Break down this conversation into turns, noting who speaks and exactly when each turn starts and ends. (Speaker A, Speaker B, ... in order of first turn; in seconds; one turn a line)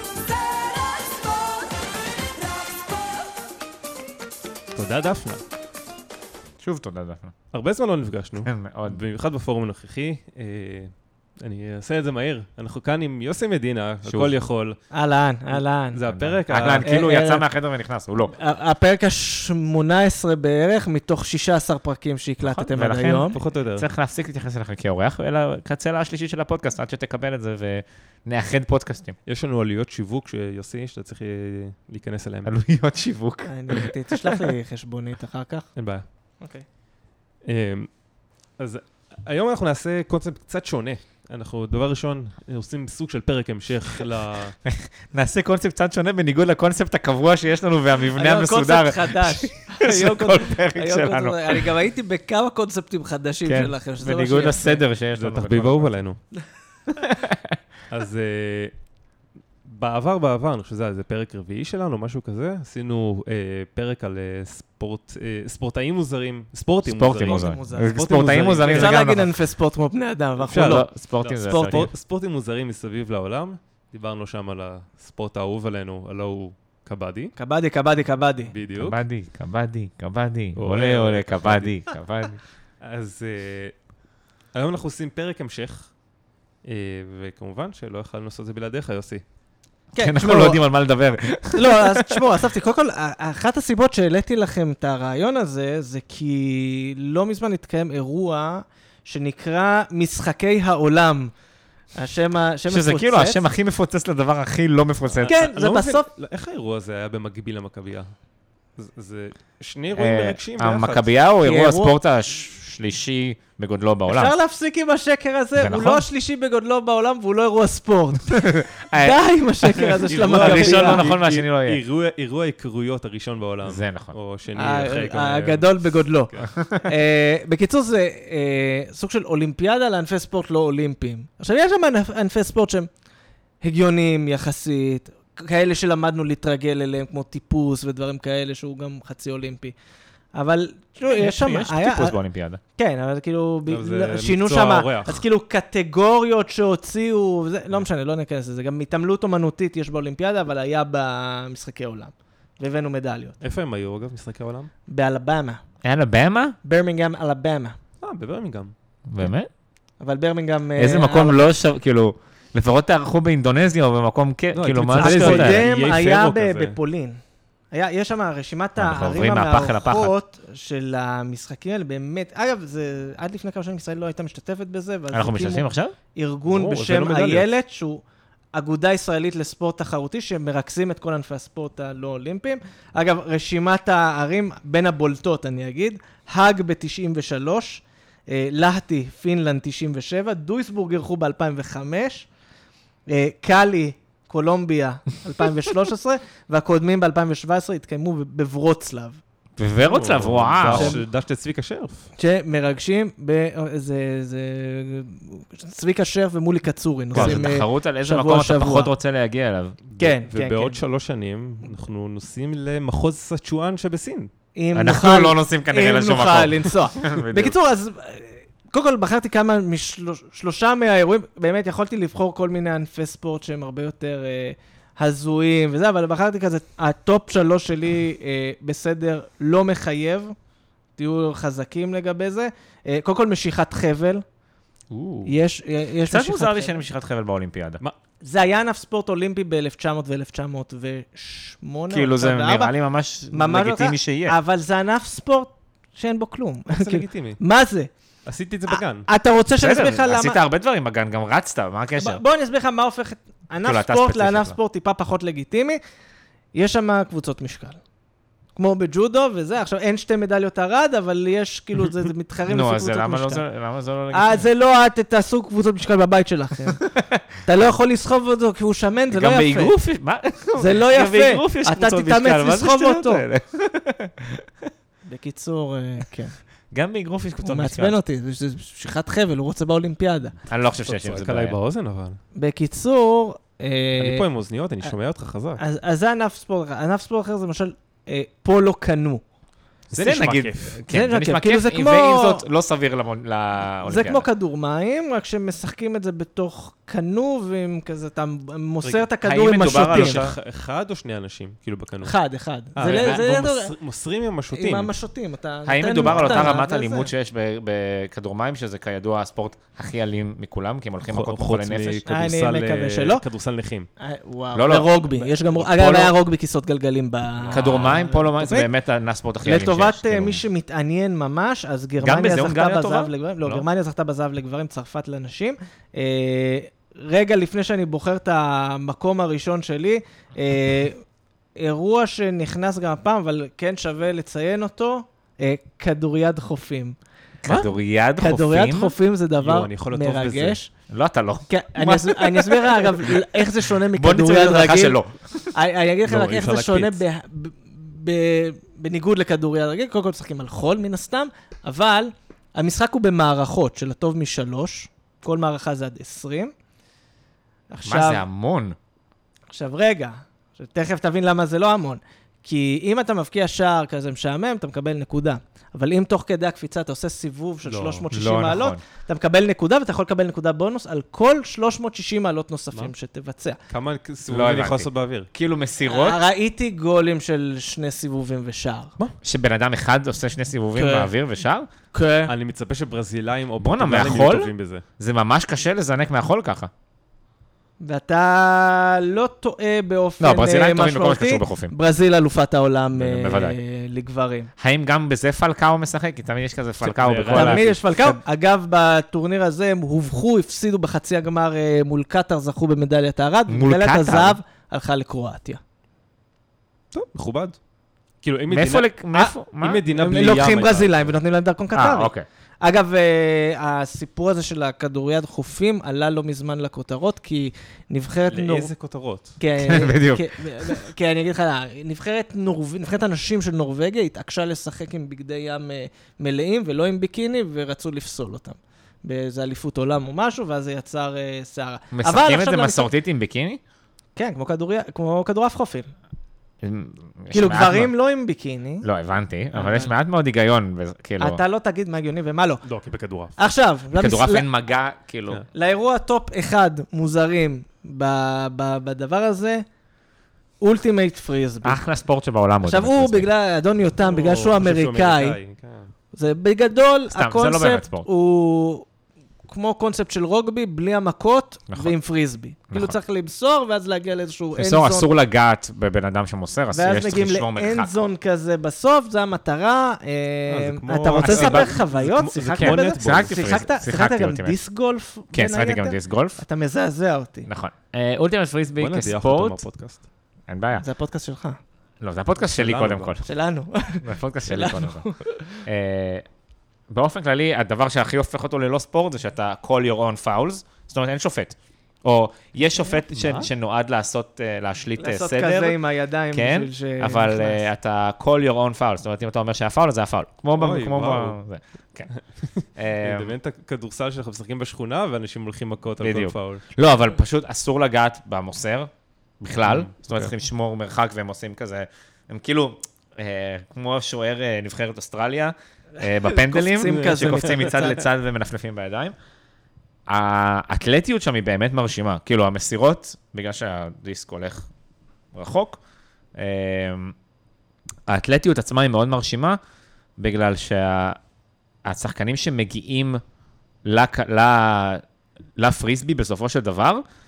Speaker A: 4.8-5.4
Speaker B: 6.6-7.3
Speaker A: 7.5-14.8
Speaker B: 8.5-9.0
Speaker B: 14.1-14.4
Speaker C: 14.9-16.0
Speaker A: 15.9-17.0
Speaker B: 16.1-18.4
Speaker C: 16.8-17.4
Speaker C: 18.4-23.4
Speaker B: 22.4-29.2
Speaker A: 22.8-23.9
Speaker A: 29.2-32.5
Speaker B: 32.5-34.5
Speaker C: 33.5-35.7
Speaker A: 35.8-36.1
Speaker C: 36.4-36.6
Speaker A: 37.5-37.9
Speaker A: 38.6-44.6
Speaker B: 44.6-51.7
Speaker C: 48.1-54.8
Speaker B: 53.5-55.9
Speaker A: 55.1-56.2
Speaker B: 57.0-57.6
Speaker A: 57.9-58.8
Speaker A: 59.6-69.0
Speaker B: 66.9-69.3
Speaker C: 67.2-70.9
Speaker A: 70.4-77.3
Speaker B: 70.6-71.9
Speaker C: 71.5-71.9
Speaker C: 77.4-78.5
Speaker A: 78.5-79.0
Speaker B: 78.8-82.4
Speaker A: 80.5-81.8
Speaker A: 82.8-83.8
Speaker A: 84.5-85.9
Speaker A: 86.6-89.2
Speaker C: 89.9-90.6
Speaker B: 90.0-92.4
Speaker C: 91.5-101.3
Speaker C: 102.0-103.4
Speaker B: 102.7-105.3
Speaker A: 105.2-108.1
Speaker C: 105.2-106.1
Speaker A: 108.8-111.1
Speaker B: 110.0-114.3
Speaker C: 111.4-112.0
Speaker C: 114.1-121.1
Speaker B: 115.6-116.0
Speaker B: 118.3-119.2
Speaker A: 119.8-126.5
Speaker B: 120.3-121.8
Speaker B: 123.7-124.1
Speaker C: 124.6-132.9
Speaker C: 133.6-139.7
Speaker C: 140.3-142.2
Speaker B: 141.1-142.6
Speaker C: 142.8-153.4
Speaker A: 143.7-145.2
Speaker A: 153.4-154.7
Speaker C: 154.9-155.6
Speaker B: 155.8-156.6
Speaker C: 156.6-157.8
Speaker A: 158.0-158.7
Speaker B: 159.1-159.5
Speaker C: 160.0-161.5
Speaker B: 160.8-165.6
Speaker A: 164.5-166.8
Speaker C: 164.9-167.2
Speaker C: 167.7-178.0
Speaker B: 168.8-170.1
Speaker B: 175.1-176.0
Speaker A: 176.5-177.5
Speaker C: 178.5-192.3
Speaker C: 193.1-199.2
Speaker B: 199.6-201.0
Speaker A: 199.8-202.1
Speaker C: 200.7-201.0
Speaker C: 202.2-208.9
Speaker A: 207.1-207.5
Speaker B: 207.1-209.8
Speaker A: 209.9-214.3
Speaker C: 210.0-210.8
Speaker C: 214.6-230.3
Speaker B: 214.7-217.6
Speaker C: 231.0-234.2
Speaker A: 234.9-235.3
Speaker C: 235.3-236.8
Speaker B: 236.1-237.8
Speaker C: 238.2-242.7
Speaker B: 241.9-244.4
Speaker C: 243.3-247.9
Speaker A: 246.7-247.4
Speaker A: 248.3-249.1
Speaker C: 248.7-250.4
Speaker B: 249.6-252.2
Speaker C: 252.0-255.8
Speaker B: 253.6-254.6
Speaker C: 256.5-257.8
Speaker C: 258.6-263.4
Speaker B: 262.5-264.5
Speaker C: 264.1-266.9
Speaker C: 267.4-269.8
Speaker B: 269.1-274.4
Speaker C: 270.6-273.2
Speaker C: 275.1-276.4
Speaker B: 276.7-278.0
Speaker C: 277.4-280.4
Speaker B: 280.5-281.6
Speaker A: 280.9-282.2
Speaker C: 282.4-284.3
Speaker A: 284.0-285.6
Speaker C: 285.6-289.2
Speaker B: 289.9-294.3
Speaker A: 289.9-290.8
Speaker C: 290.8-292.4
Speaker C: 293.9-300.2
Speaker A: 298.8-302.1
Speaker B: 299.2-300.4
Speaker C: 302.0-303.7
Speaker A: 302.8-304.9
Speaker B: 302.8-303.2
Speaker C: 304.5-307.1
Speaker B: 305.7-312.0
Speaker A: 306.0-306.6
Speaker A: 311.1-313.9
Speaker C: 312.1-313.2
Speaker C: 314.0-318.7
Speaker B: 314.5-316.1
Speaker A: 317.4-318.0
Speaker B: 317.5-320.4
Speaker C: 319.4-331.0
Speaker B: 322.0-323.6
Speaker C: 331.6-337.0
Speaker B: 337.4-338.9
Speaker C: 338.2-340.7
Speaker A: 339.4-340.6
Speaker B: 340.9-345.5
Speaker C: 341.5-345.0
Speaker C: 345.5-356.5
Speaker A: 346.1-347.0
Speaker C: 357.7-358.2
Speaker B: 357.9-358.8
Speaker C: 359.5-373.6
Speaker A: 367.6-368.0
Speaker B: 368.1-368.8
Speaker A: 373.7-375.3
Speaker B: 374.3-376.2
Speaker C: 375.9-378.9
Speaker B: 379.2-381.7
Speaker C: 380.8-381.1
Speaker C: 381.9-382.3
Speaker A: 382.3-384.8
Speaker B: 383.6-386.7
Speaker C: 387.8-394.5
Speaker B: 390.2-391.7
Speaker B: 392.9-393.6
Speaker B: 394.6-397.7
Speaker A: 396.8-398.1
Speaker C: 397.3-405.6
Speaker B: 403.5-404.4
Speaker A: 406.9-407.6
Speaker A: 408.2-408.9
Speaker B: 408.5-409.8
Speaker A: 409.6-411.1
Speaker C: 409.9-418.7
Speaker B: 411.7-412.2
Speaker A: 418.3-419.4
Speaker C: 419.4-432.9
Speaker B: 419.6-420.9
Speaker B: 431.9-433.6
Speaker C: 434.2-435.9
Speaker B: 436.6-437.9
Speaker C: 437.3-438.9
Speaker B: 438.8-441.4
Speaker C: 439.6-439.9
Speaker C: 441.2-442.6
Speaker A: 442.6-443.4
Speaker C: 443.4-444.5
Speaker B: 443.9-445.4
Speaker C: 445.5-449.6
Speaker C: 450.6-451.8
Speaker B: 451.6-453.3
Speaker C: 452.6-455.4
Speaker A: 454.0-455.9
Speaker C: 456.1-458.9
Speaker B: 457.1-458.1
Speaker C: 459.5-465.1
Speaker B: 462.7-463.0
Speaker B: 464.6-468.0
Speaker C: 466.7-477.5
Speaker A: 470.5-473.6
Speaker B: 471.2-471.8
Speaker B: 472.6-474.6
Speaker B: 475.3-476.4
Speaker B: 477.5-479.6
Speaker A: 478.8-480.1
Speaker B: 480.5-480.9
Speaker C: 480.8-481.6
Speaker B: 482.0-483.3
Speaker A: 482.4-483.1
Speaker C: 483.3-485.6
Speaker B: 484.0-485.1
Speaker B: 485.6-486.2
Speaker B: 486.9-495.8
Speaker A: 493.1-493.5
Speaker C: 495.0-497.6
Speaker B: 496.3-502.1
Speaker A: 500.6-501.4
Speaker A: 502.1-506.6
Speaker B: 502.8-503.3
Speaker B: 506.0-519.1
Speaker A: 509.6-510.3
Speaker C: 516.0-518.0
Speaker A: 516.9-517.5
Speaker B: 520.1-524.7
Speaker B: 525.3-525.8
Speaker B: 526.4-527.1
Speaker B: 528.1-529.6
Speaker B: 530.2-531.2
Speaker B: 531.9-533.2
Speaker B: 533.9-535.0
Speaker B: 535.6-537.0